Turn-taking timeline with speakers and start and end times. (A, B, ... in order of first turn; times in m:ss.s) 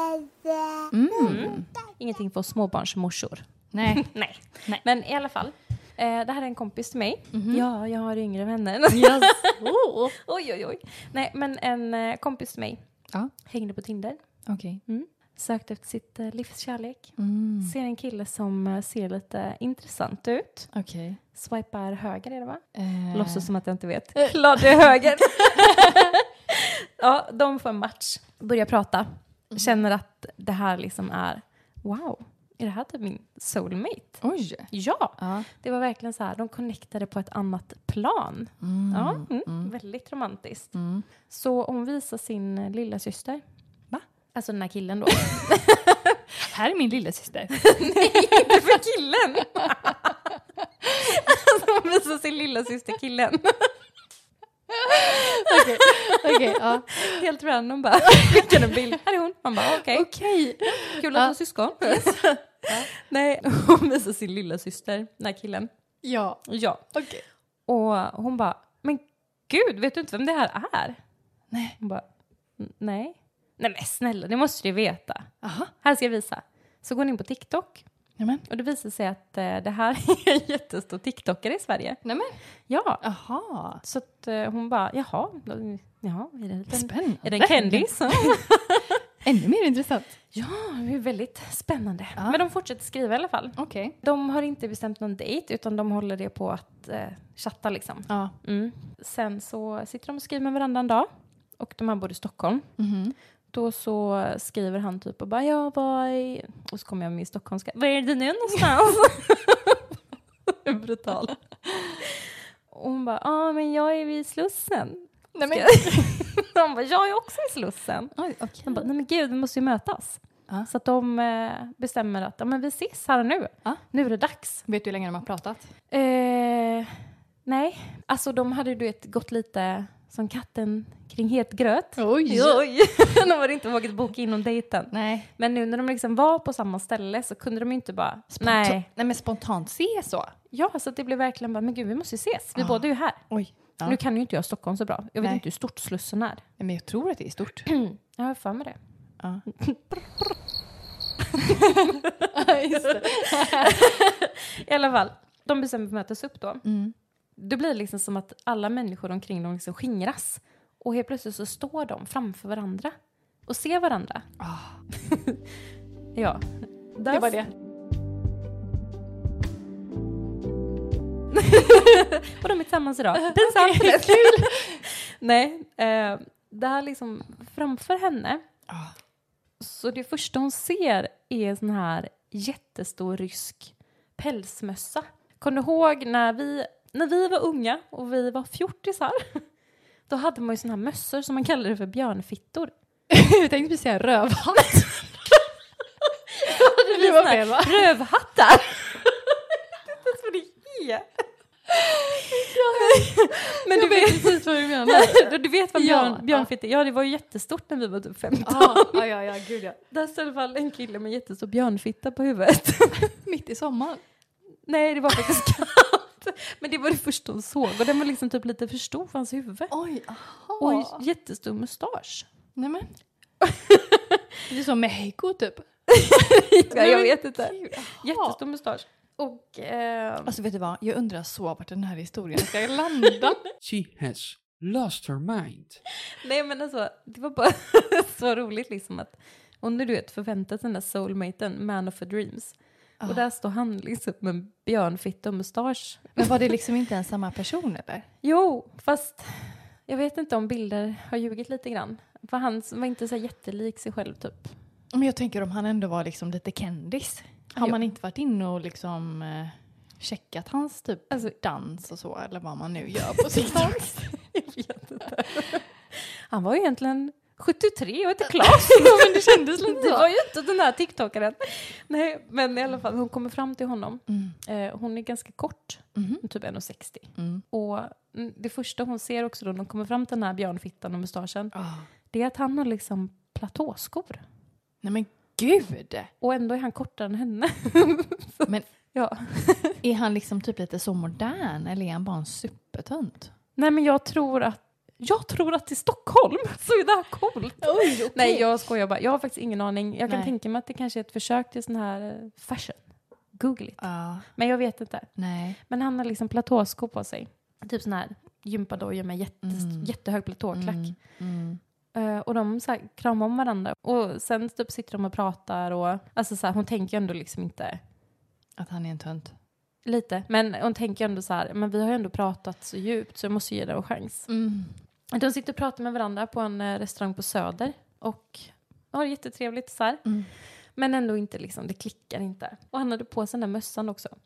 0:00.9-0:01.7 A
0:01.1-0:12.8 B
0:03.7-0:04.1 A
0:07.3-0:07.7 A
0:08.9-0:10.1 A
0:13.4-0:14.2 B
0:14.5-0:14.8 A
0:14.9-0:20.7 B
0:17.2-0:17.7 A
0:20.7-0:21.2 A
0:21.4-0:43.4 B
0:22.8-0:23.5 A
0:25.5-0:26.2 A
0:29.5-0:29.8 A
0:34.2-0:35.5 A
0:38.6-0:39.7 A
0:40.7-0:41.1 A
0:44.3-0:46.2 B
0:46.4-0:48.7 A
0:47.6-0:50.3 B
0:49.6-0:49.9 A
0:50.9-0:53.7 B
0:54.7-0:57.2 A
0:55.5-1:00.1 B
0:58.2-0:58.7 A
0:59.8-1:02.9 A
1:00.7-1:05.7 B
1:06.0-1:06.4 A
1:06.5-1:06.8 B
1:06.9-1:07.2 A
1:07.7-1:11.0 B
1:11.5-1:11.8 A
1:11.8-1:12.0 B
1:12.6-1:17.8 B
1:15.4-1:15.7 A
1:18.2-1:18.4 A
1:18.5-1:22.0 B
1:22.0-1:22.4 A
1:22.7-1:23.0 B
1:23.0-1:23.8 A
1:23.8-1:29.0 B
1:26.7-1:28.4 A
1:29.2-1:30.1 A
1:30.3-1:42.7 B
1:33.6-1:34.0 A
1:38.1-1:38.4 A
1:42.8-1:43.2 A
1:43.5-1:49.8 B
1:50.5-1:51.4 B
1:52.3-1:58.1 B
1:55.3-1:56.3 A
1:58.2-1:58.9 A
1:58.6-2:04.6 B
2:04.7-2:05.7 A
2:05.9-2:18.9 B
2:12.0-2:12.6 A
2:14.9-2:15.3 A
2:18.3-2:20.3 A
2:20.5-2:23.3 B
2:22.6-2:24.0 A
2:23.8-2:26.4 B
2:26.6-2:27.7 A
2:27.7-2:28.8 B
2:29.2-2:29.4 A
2:29.5-2:30.4 B
2:31.2-2:36.6 B
2:32.3-2:33.8 A
2:36.6-2:36.9 A
2:37.4-2:42.9 B
2:43.4-2:44.3 B
2:44.4-2:44.8 A
2:45.0-2:45.4 B
2:46.1-2:47.4 B
2:47.1-2:47.5 A
2:51.3-2:58.4 B
2:53.2-2:54.8 A
2:59.6-3:09.4 B
3:10.1-3:12.7 B
3:13.1-3:15.2 A
3:16.3-3:21.1 B
3:16.4-3:17.9 A
3:21.8-3:26.5 A
3:22.6-3:29.0 B
3:28.4-3:29.8 A
3:29.9-3:33.1 B
3:33.2-3:34.0 A
3:34.6-3:39.7 B
3:39.7-3:41.0 A
3:40.6-3:42.3 B
3:42.6-3:43.0 A
3:43.4-3:44.2 B
3:44.5-3:45.7 A
3:45.9-3:50.3 B
3:46.7-3:48.4 A
3:50.2-3:53.4 A
3:53.6-3:55.8 C
3:56.1-4:06.3 B
4:06.2-4:08.1 A
4:08.2-4:14.6 B
4:14.9-4:24.0 A
4:17.5-4:17.8 B
4:23.1-4:41.5 B
4:28.3-4:30.1 A
4:34.1-4:34.4 A
4:36.0-4:36.2 A
4:37.2-4:37.4 A
4:41.5-4:41.9 A
4:42.1-4:44.2 B
4:44.8-4:46.1 A
4:46.2-4:49.8 B
4:49.8-4:53.3 A
4:53.6-5:11.0 B
4:57.6-4:58.6 A
5:00.1-5:00.3 A
5:03.8-5:04.3 A
5:05.2-5:05.6 A
5:09.4-5:10.0 A
5:10.5-5:11.6 A
5:11.9-5:17.8 B
5:18.6-5:19.4 A
5:19.8-5:24.3 B
5:24.3-5:24.7 A
5:25.1-5:34.2 B
5:30.0-5:30.3 A